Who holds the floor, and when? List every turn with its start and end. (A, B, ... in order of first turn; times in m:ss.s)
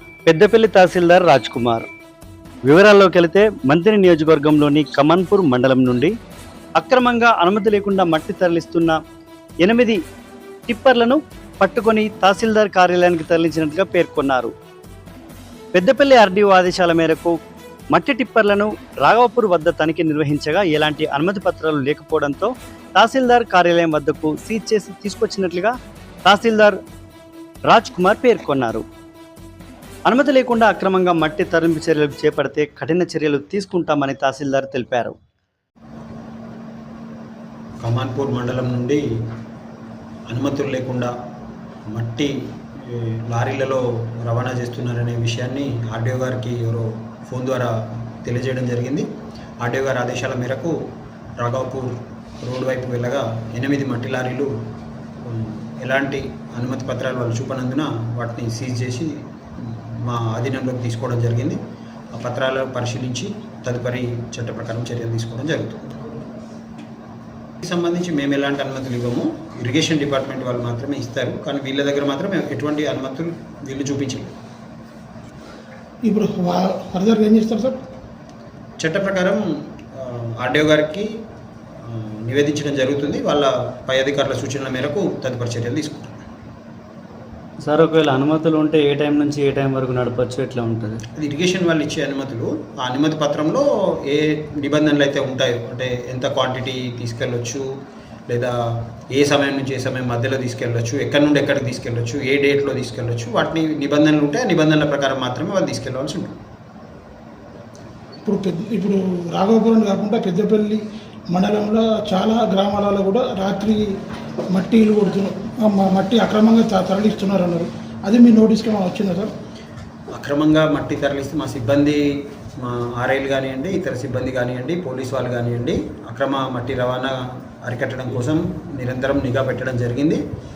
0:00.3-0:01.9 A
0:02.6-0:06.1 A
0:06.8-0:09.0 A
0:09.6-0:10.0 A
0:10.7-0:14.5 A
0:15.7-0:17.3 A
0:17.9-0:25.7 A
0:26.2-0:26.8 A
0:27.7-0:28.8 A
0:30.1-0:35.2 A
0:37.8-0:39.0 B
0:40.3-0:41.1 B
0:41.9-0:49.0 B
0:49.6-0:50.7 B
0:51.4-0:54.5 B
0:55.2-1:01.6 B
1:02.1-1:06.0 B
1:07.6-1:14.3 B
1:16.0-1:17.8 C
1:18.8-1:21.1 B
1:21.8-1:26.2 B
1:27.6-1:31.0 A
1:31.2-1:37.6 B
1:38.3-1:46.3 B
1:48.2-1:53.8 C
1:54.5-1:59.3 C
2:00.1-2:02.0 B
2:02.6-2:10.2 B